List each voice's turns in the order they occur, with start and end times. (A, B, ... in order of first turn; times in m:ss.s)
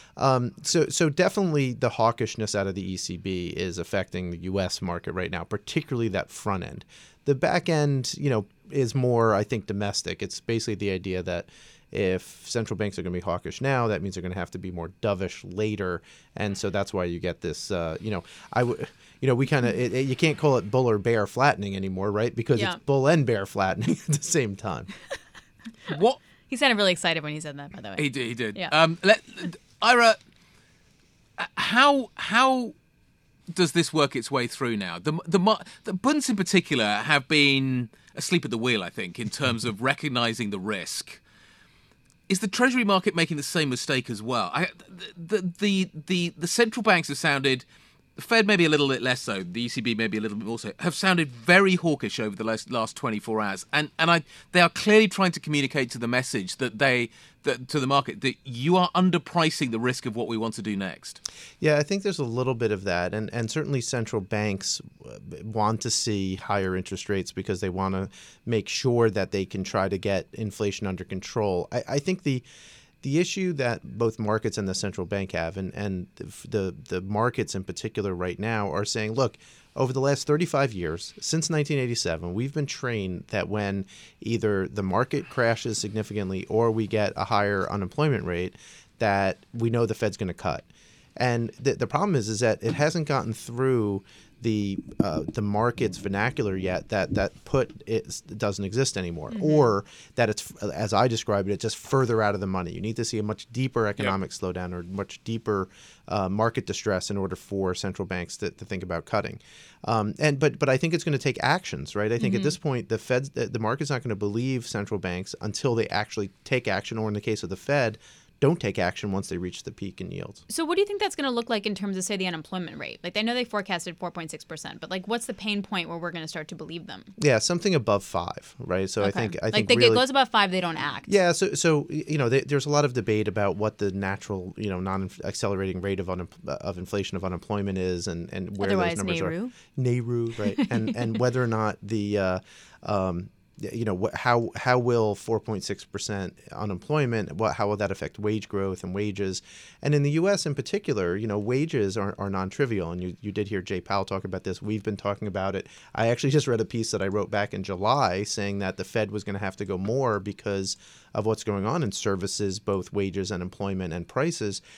0:00.2-0:24.9 A
0:25.9-0:26.2 B
0:26.5-0:28.7 C
0:28.0-0:30.2 B
0:31.4-0:32.8 B
0:33.5-0:41.2 B
0:42.3-0:47.6 B
0:48.2-1:01.2 B
1:01.6-1:12.5 A
1:13.0-2:00.4 A
1:39.3-1:39.7 C
1:52.2-1:52.6 C
2:00.5-2:07.1 C
2:07.2-2:10.0 A
2:09.0-2:11.1 C
2:11.1-2:44.6 A
2:18.6-2:19.5 C
2:20.4-2:20.9 C